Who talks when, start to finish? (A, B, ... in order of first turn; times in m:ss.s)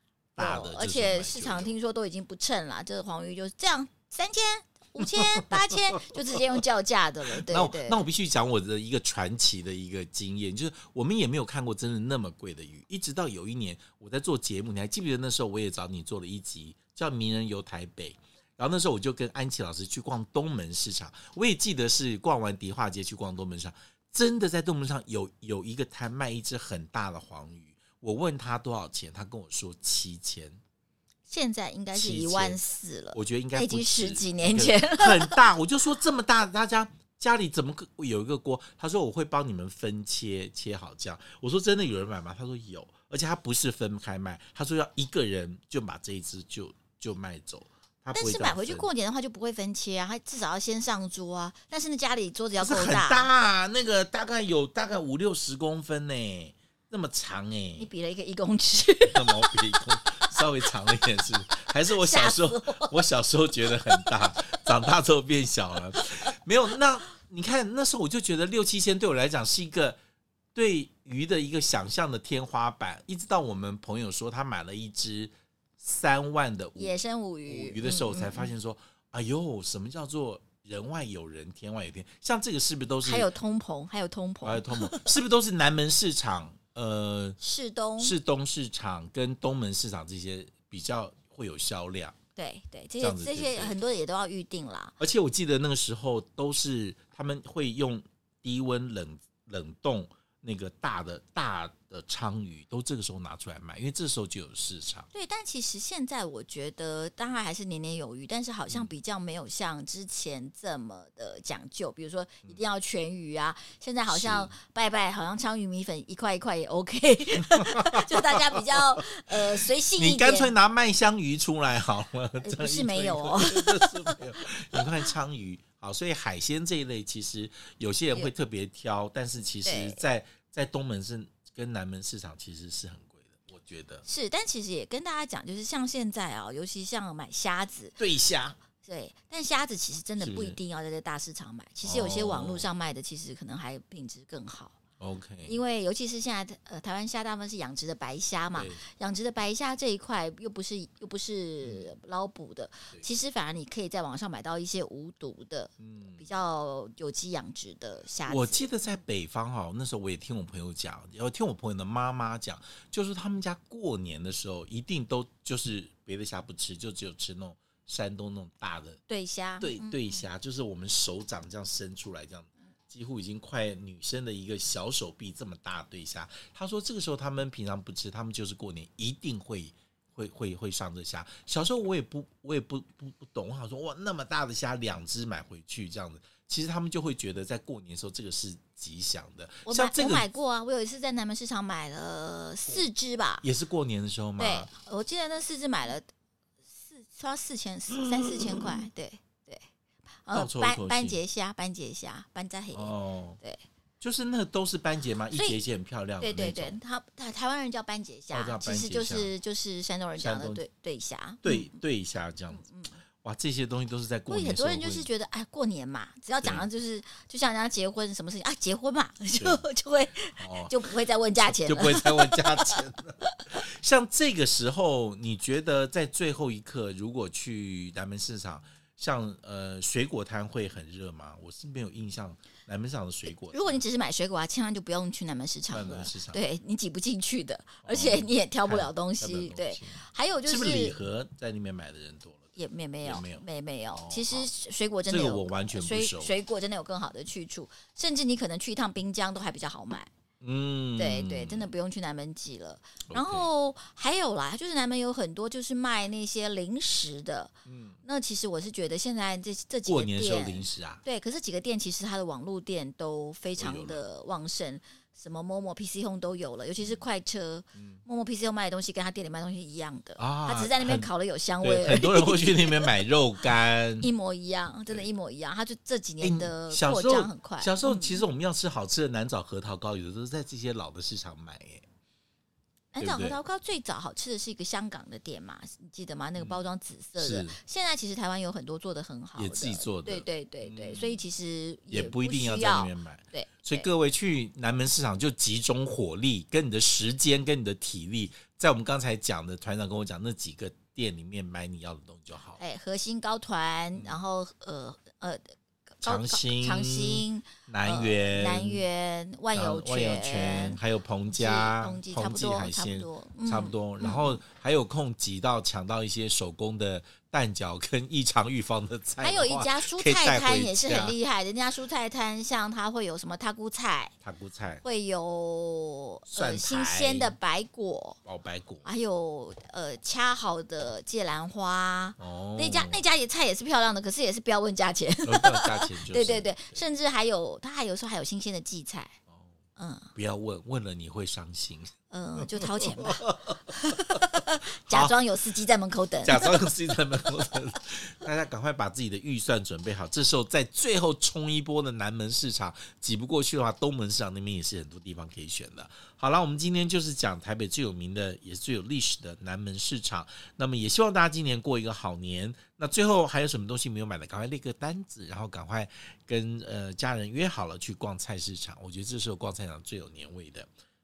0:00.4-0:01.7 A
0:00.4-0:08.1 B
0:05.0-0:06.6 A
0:07.3-0:30.6 A
0:31.3-0:35.4 B
0:31.9-0:32.6 A
0:33.1-0:48.9 A
0:48.1-0:53.3 B
0:52.6-0:57.9 A
0:57.8-1:00.8 B
0:59.1-1:10.0 A
1:01.9-1:03.0 B
1:10.6-1:23.3 A
1:16.8-1:18.5 B
1:23.0-1:25.1 B
1:24.4-1:27.4 A
1:27.4-1:28.2 B
1:28.0-1:32.2 A
1:32.4-1:34.9 B
1:33.0-1:33.8 A
1:35.0-1:45.1 A
1:45.1-2:00.5 B
1:54.1-1:54.5 A
1:57.4-2:14.0 A
2:02.4-2:05.1 B
2:09.6-2:10.0 B
2:14.0-2:18.0 B
2:18.0-2:18.6 A
2:18.8-2:24.8 B
2:20.2-2:20.6 A
2:21.8-2:22.7 A
2:25.0-2:25.6 A
2:25.4-2:38.7 B
2:28.6-2:28.8 A
2:31.6-2:31.9 A
2:35.8-2:36.2 A
2:38.3-2:49.0 A
2:49.1-2:50.2 B
2:49.6-3:10.2 A
3:09.6-3:13.4 B
3:13.4-3:14.7 A
3:14.4-3:16.1 B
3:16.8-3:19.6 B
3:17.9-3:18.8 A
3:20.2-3:23.6 B
3:20.3-3:21.2 A
3:22.7-3:23.4 A
3:24.0-3:26.8 A
3:25.3-3:25.6 B
3:26.2-3:31.8 B
3:28.3-3:29.3 A
3:30.2-3:30.6 A
3:31.4-3:32.6 A
3:32.5-3:33.0 B
3:33.2-3:35.1 A
3:34.3-3:43.5 B
3:39.4-3:39.6 A
3:40.4-3:53.8 A
3:53.5-4:01.0 B
3:55.7-3:56.4 A
3:57.8-4:02.4 A
4:02.6-4:10.1 B
4:03.0-4:04.5 A
4:05.1-4:06.3 A
4:10.4-4:11.7 A
4:11.0-4:17.5 B
4:13.1-4:13.5 A
4:17.7-4:18.0 A
4:18.0-4:32.9 B
4:19.9-4:21.0 A
4:23.6-4:24.0 A
4:30.2-4:31.1 A
4:31.6-4:34.1 A
4:34.0-4:38.2 B
4:36.2-4:41.8 A
4:42.9-4:53.9 B
4:43.0-4:43.4 A
4:47.2-4:47.6 A
4:49.4-4:51.2 A
4:51.9-5:02.6 A
5:02.6-5:10.8 B
5:03.9-5:04.2 A
5:06.0-5:08.9 A
5:09.5-5:21.2 A
5:11.3-5:14.4 B
5:19.2-5:24.1 B
5:24.2-5:24.8 A
5:24.8-5:28.2 B
5:26.3-5:27.4 A
5:28.2-5:28.9 A
5:28.8-5:39.2 B
5:32.2-5:33.0 A
5:35.2-5:36.8 A
5:39.8-5:40.1 B
5:40.1-5:45.1 A
5:42.1-5:46.7 B
5:46.2-6:10.7 A